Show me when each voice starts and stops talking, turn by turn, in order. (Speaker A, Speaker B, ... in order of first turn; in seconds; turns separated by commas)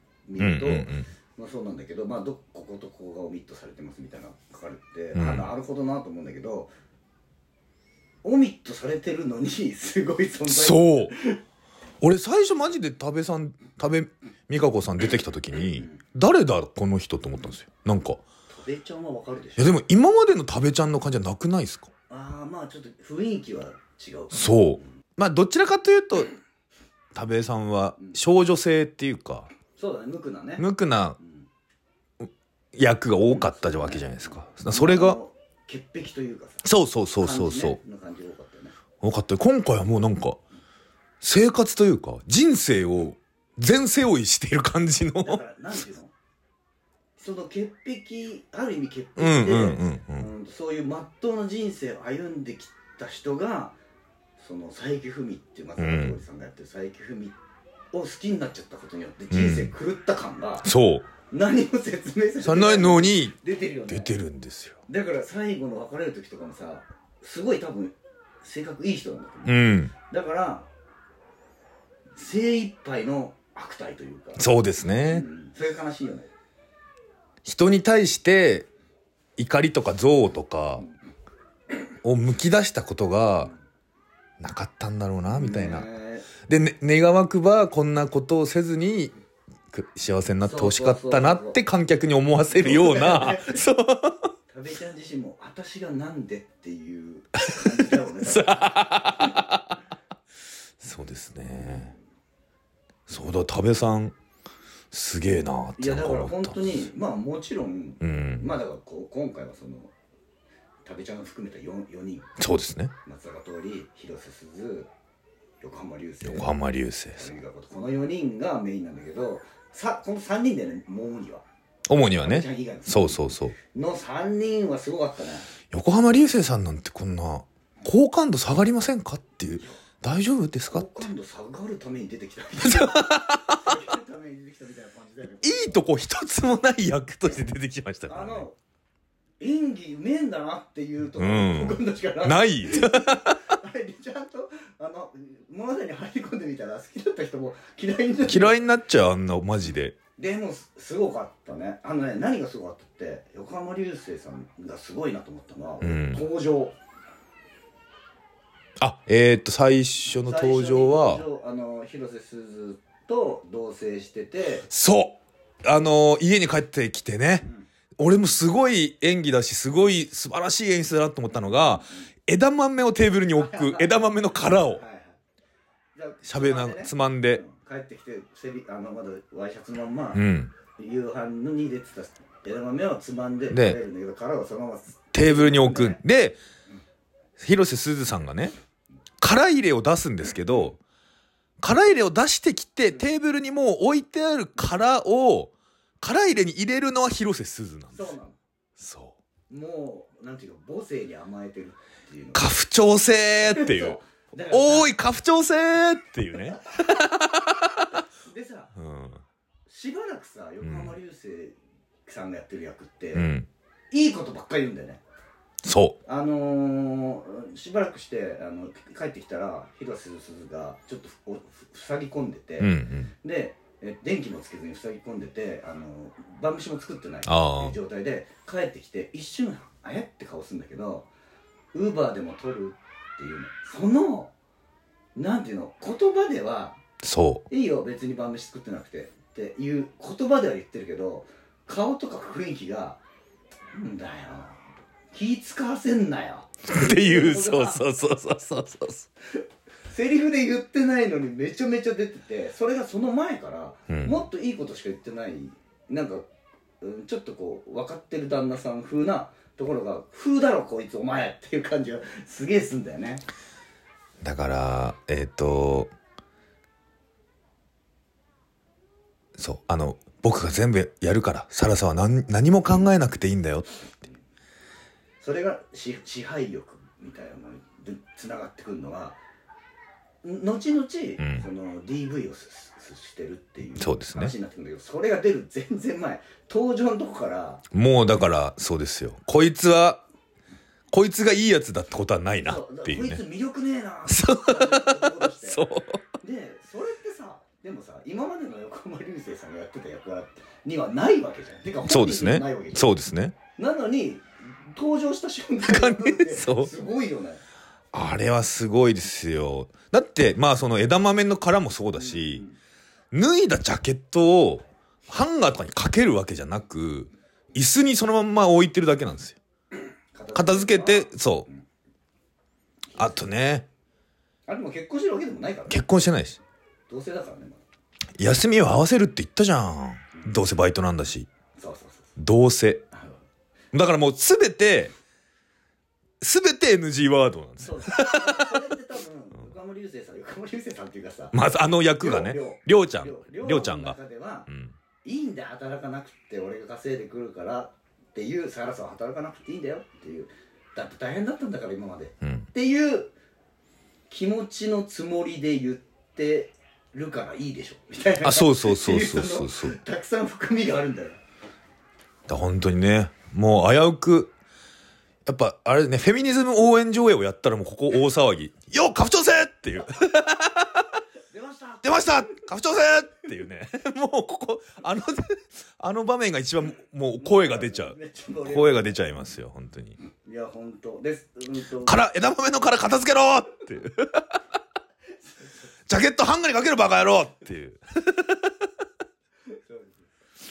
Speaker A: 0.3-6.7, Speaker B: 0.4-1.1, Speaker B: 5.1-5.5, Speaker A: 8.2-11.4, Speaker B: 10.5-11.1, Speaker B: 12.0-18.2, Speaker A: 18.5-19.7, Speaker B: 19.6-21.9, Speaker A: 22.1-24.5, Speaker B: 24.3-26.3, Speaker B: 27.1-29.5, Speaker A: 29.8-30.6, Speaker B: 30.6-31.2, Speaker A: 31.2-31.5, Speaker B: 32.2-35.2, Speaker A: 33.3-36.7, Speaker B: 36.6-37.8, Speaker A: 37.2-38.8, Speaker B: 39.0-40.4, Speaker B: 41.2-45.4, Speaker A: 45.2-46.1, Speaker A: 47.2-53.8, Speaker B: 49.2-50.3, Speaker A: 54.4-57.4, Speaker B: 55.8-56.2, Speaker A: 57.9-60.7, Speaker B: 59.3-59.7, Speaker B: 60.6-61.1, Speaker A: 61.3-64.1, Speaker B: 62.4-63.4, Speaker B: 63.9-64.8, Speaker A: 64.9-70.7, Speaker B: 69.5-69.9, Speaker A: 72.2-74.4, Speaker B: 74.4-75.3, Speaker A: 75.0-76.3, Speaker B: 77.4-78.7, Speaker B: 79.4-80.8, Speaker B: 82.0-83.5, Speaker B: 84.4-85.9, Speaker A: 85.3-86.3, Speaker B: 86.4-89.1, Speaker B: 89.7-94.3, Speaker A: 90.4-91.6, Speaker A: 92.5-93.6, Speaker A: 94.5-99.3, Speaker B: 98.2-99.8, Speaker B: 100.8-101.9, Speaker B: 103.1-104.1, Speaker B: 104.9-106.7, Speaker A: 105.8-109.9, Speaker B: 108.0-108.5, Speaker A: 110.8-112.3, Speaker B: 112.4-112.9, Speaker A: 113.0-114.9, Speaker A: 115.6-116.5, Speaker B: 116.2-117.3, Speaker A: 117.1-121.4, Speaker B: 121.9-123.5, Speaker A: 122.2-125.5, Speaker B: 125.7-131.1, Speaker A: 130.7-135.8, Speaker B: 132.6-133.8, Speaker B: 135.4-138.4, Speaker A: 138.1-138.6, Speaker A: 139.4-148.6, Speaker B: 141.2-143.4, Speaker B: 148.3-149.9, Speaker A: 150.2-156.8, Speaker B: 155.8-156.2, Speaker B: 158.8-161.2, Speaker A: 160.2-164.7, Speaker B: 164.7-174.8, Speaker A: 171.8-172.1, Speaker A: 173.4-175.2, Speaker A: 175.9-180.2, Speaker B: 176.2-177.4, Speaker B: 180.1-180.5, Speaker A: 180.8-186.0, Speaker B: 183.5-183.8, Speaker B: 185.1-186.4, Speaker B: 187.4-188.5, Speaker B: 189.2-190.8, Speaker B: 191.6-198.1, Speaker A: 197.9-198.4, Speaker B: 198.8-199.2, Speaker A: 199.5-202.5, Speaker B: 202.3-204.0, Speaker A: 203.4-204.9, Speaker B: 204.5-208.0, Speaker A: 208.2-208.7, Speaker B: 208.8-209.2, Speaker A: 209.7-213.3, Speaker B: 210.6-210.9, Speaker B: 213.1-213.5, Speaker A: 213.9-215.0, Speaker B: 215.6-216.0, Speaker A: 216.1-231.1, Speaker B: 222.6-223.1, Speaker B: 227.2-227.8, Speaker A: 231.7-234.3, Speaker A: 235.1-236.8, Speaker B: 237.0-237.4, Speaker A: 237.5-243.0, Speaker A: 243.7-247.8, Speaker B: 246.7-249.1, Speaker A: 249.9-256.2, Speaker B: 253.9-254.2, Speaker A: 256.8-263.2, Speaker B: 264.2-265.9, Speaker B: 269.4-273.7, Speaker A: 275.2-279.2, Speaker A: 280.2-287.6, Speaker B: 281.2-281.4, Speaker B: 283.8-284.3, Speaker B: 287.7-290.0, Speaker B: 290.9-293.2, Speaker A: 292.4-295.7, Speaker B: 294.1-296.0, Speaker A: 296.2-302.9, Speaker B: 301.8-303.4, Speaker A: 303.6-307.4, Speaker B: 305.6-306.7, Speaker B: 307.9-312.4, Speaker A: 312.0-312.6, Speaker B: 313.1-319.4, Speaker A: 320.1-321.6, Speaker B: 320.3-321.5, Speaker A: 322.9-323.2, Speaker B: 323.0-323.6, Speaker A: 324.5-325.8, Speaker B: 325.7-326.4, Speaker A: 326.9-327.6, Speaker B: 328.2-331.3, Speaker A: 331.6-332.1, Speaker B: 332.2-332.8, Speaker A: 332.9-333.2, Speaker B: 333.7-334.9, Speaker B: 336.2-338.5, Speaker A: 337.6-341.4, Speaker B: 341.3-344.7, Speaker A: 342.0-344.5, Speaker A: 345.0-353.1, Speaker B: 352.2-352.5, Speaker A: 354.1-361.2, Speaker B: 358.2-359.8, Speaker B: 362.3-364.3, Speaker B: 365.2-370.9, Speaker A: 371.3-372.4, Speaker B: 371.8-380.0, Speaker A: 377.2-379.0, Speaker A: 380.2-382.0, Speaker B: 381.8-384.4, Speaker A: 385.3-385.6, Speaker B: 385.9-388.6, Speaker A: 389.5-390.1